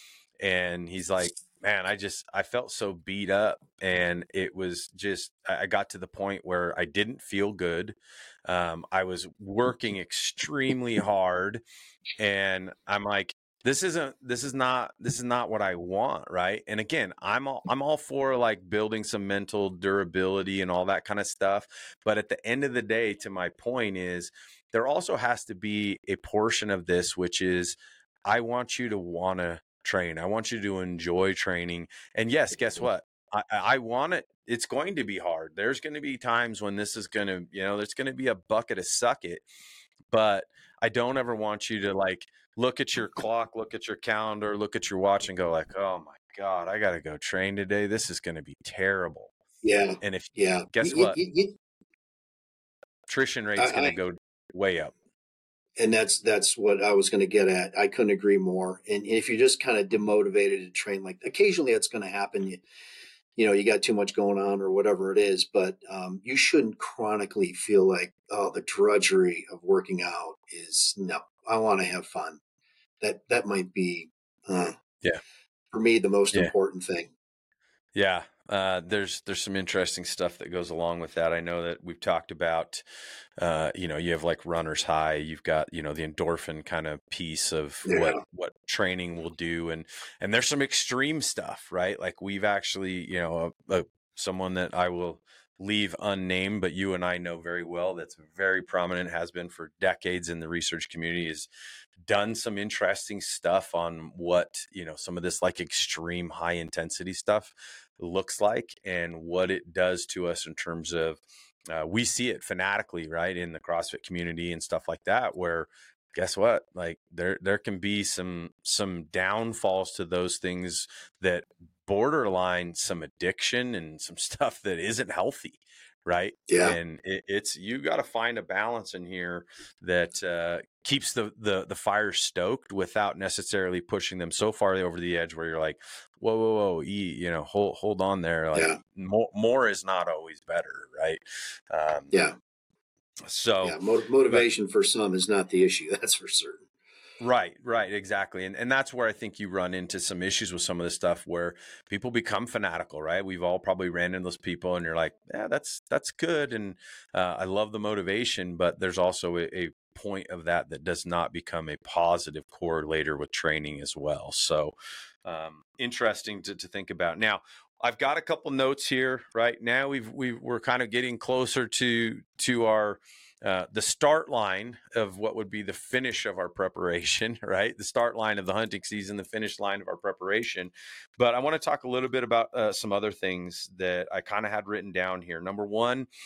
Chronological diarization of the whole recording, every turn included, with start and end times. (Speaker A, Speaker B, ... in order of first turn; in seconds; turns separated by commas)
Speaker A: 0.4-11.6, Speaker A: 12.2-27.7, Speaker A: 28.2-39.4, Speaker A: 40.1-49.3, Speaker B: 49.6-51.6, Speaker A: 50.0-51.2, Speaker A: 53.1-54.9, Speaker B: 53.6-54.0, Speaker B: 55.8-62.6, Speaker B: 63.4-72.4, Speaker B: 73.0-74.8, Speaker B: 75.7-77.1, Speaker A: 77.9-82.8, Speaker A: 83.4-101.5, Speaker B: 87.8-88.2, Speaker A: 102.0-142.1, Speaker B: 126.5-126.8, Speaker B: 138.5-138.8, Speaker A: 143.3-143.8, Speaker B: 143.6-146.6, Speaker A: 147.2-164.7, Speaker A: 165.2-186.1